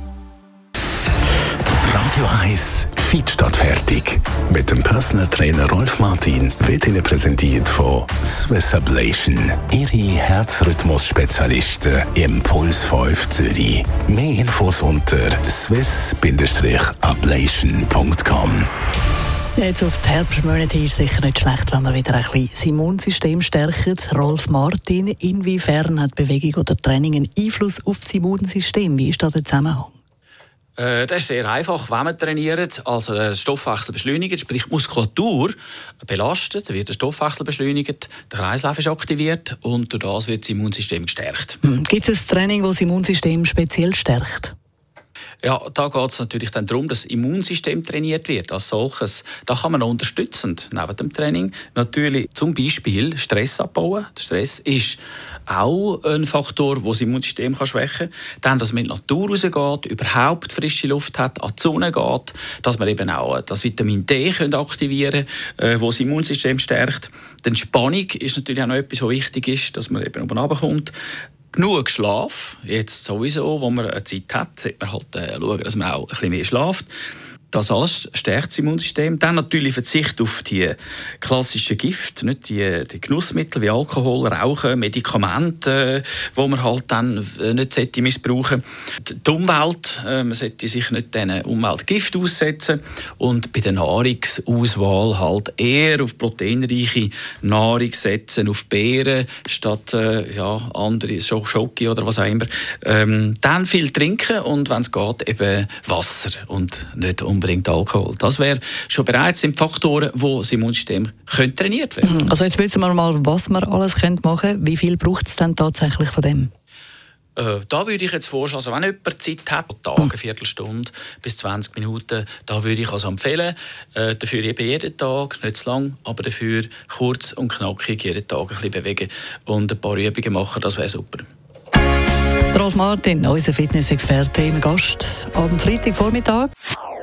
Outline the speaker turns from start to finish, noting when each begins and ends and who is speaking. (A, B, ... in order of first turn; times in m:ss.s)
0:01.8-0:18.7 A
0:19.6-0:29.9 B
0:30.8-0:41.6 C
0:41.6-0:44.5 B
0:45.4-1:10.9 C
1:11.5-1:16.9 C
1:17.5-1:52.2 C
1:52.0-1:56.5 B
1:57.4-2:11.3 C
2:12.5-2:16.5 B